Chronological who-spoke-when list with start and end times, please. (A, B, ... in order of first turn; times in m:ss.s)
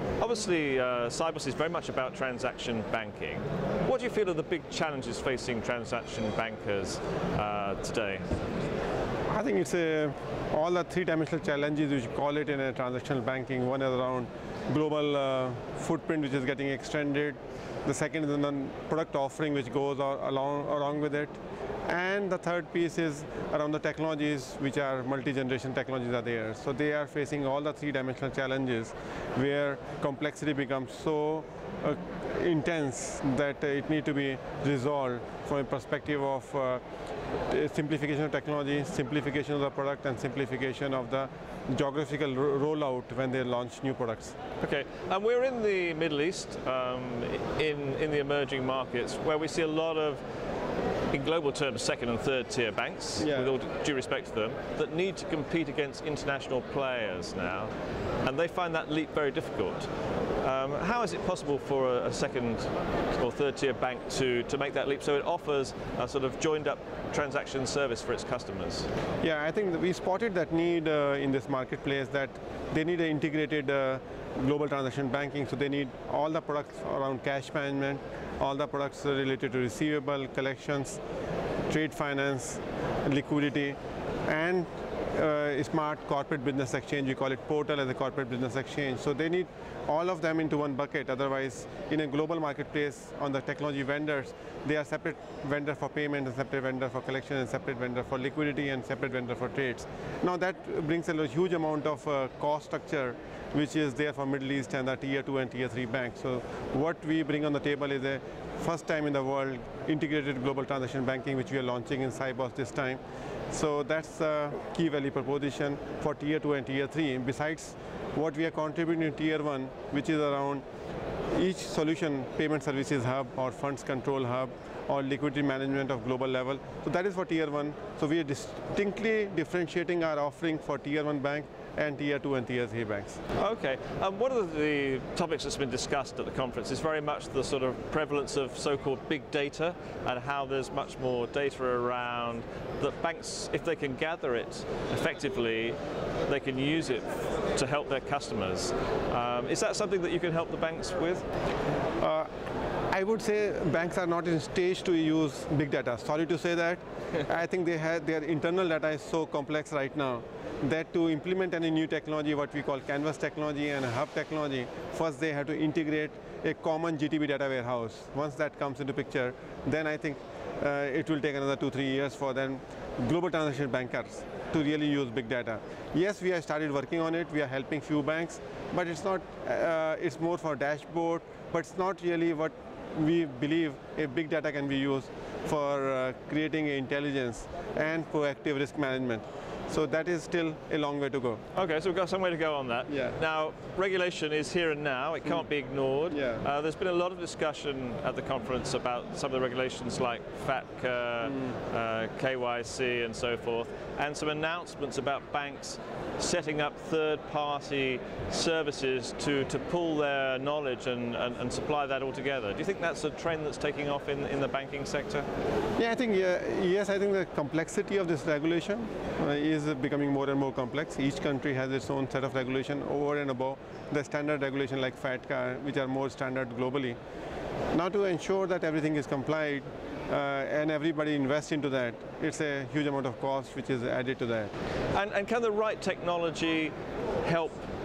0:00.2-0:08.3 A
0:09.3-0:36.8 B
0:37.5-0:44.4 B
0:44.6-0:50.2 A
0:51.1-0:57.7 A
0:53.2-0:53.5 B
0:58.2-0:59.9 A
1:00.4-1:08.9 A
1:09.2-1:21.0 B
1:21.7-2:00.6 B
2:01.3-2:13.2 B
2:13.4-2:31.2 A
2:32.0-2:32.3 B
2:32.9-3:11.4 B
3:11.6-3:35.3 A
3:12.9-3:13.2 B
3:16.1-3:16.4 B
3:35.8-3:47.0 B
3:47.7-3:54.5 B
3:54.9-3:57.6 A